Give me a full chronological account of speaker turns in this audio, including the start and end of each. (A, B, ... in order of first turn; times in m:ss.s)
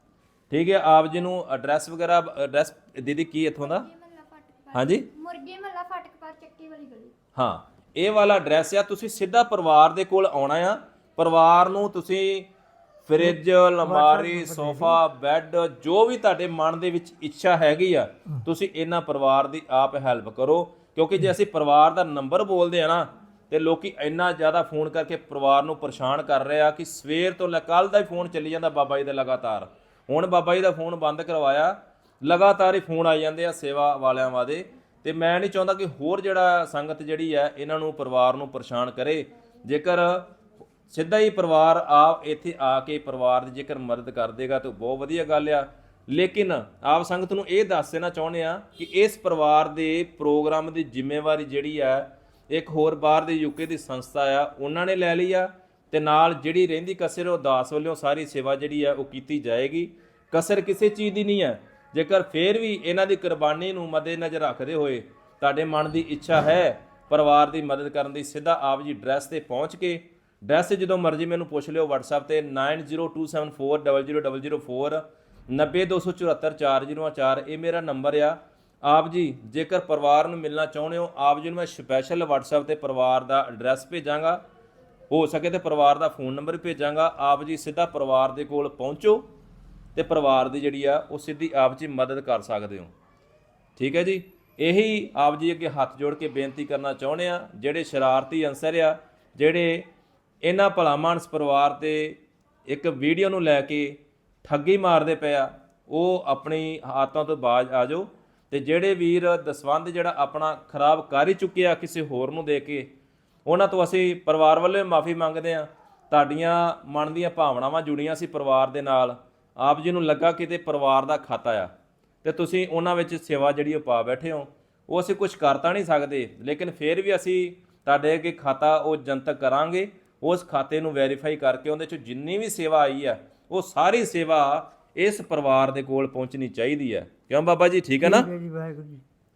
0:00.5-0:03.9 A
0:03.7-0:07.1 B
0:04.7-0:05.1 A
0:07.4-0:12.5 A
0:13.0-0:40.2 A
0:13.2-0:15.0 C
0:40.9-1:24.4 A
1:25.1-1:29.3 A
1:30.0-1:32.9 A
1:33.8-1:39.9 A
1:40.4-1:52.9 A
1:53.5-2:01.7 A
2:02.2-2:18.3 A
2:18.0-2:19.0 C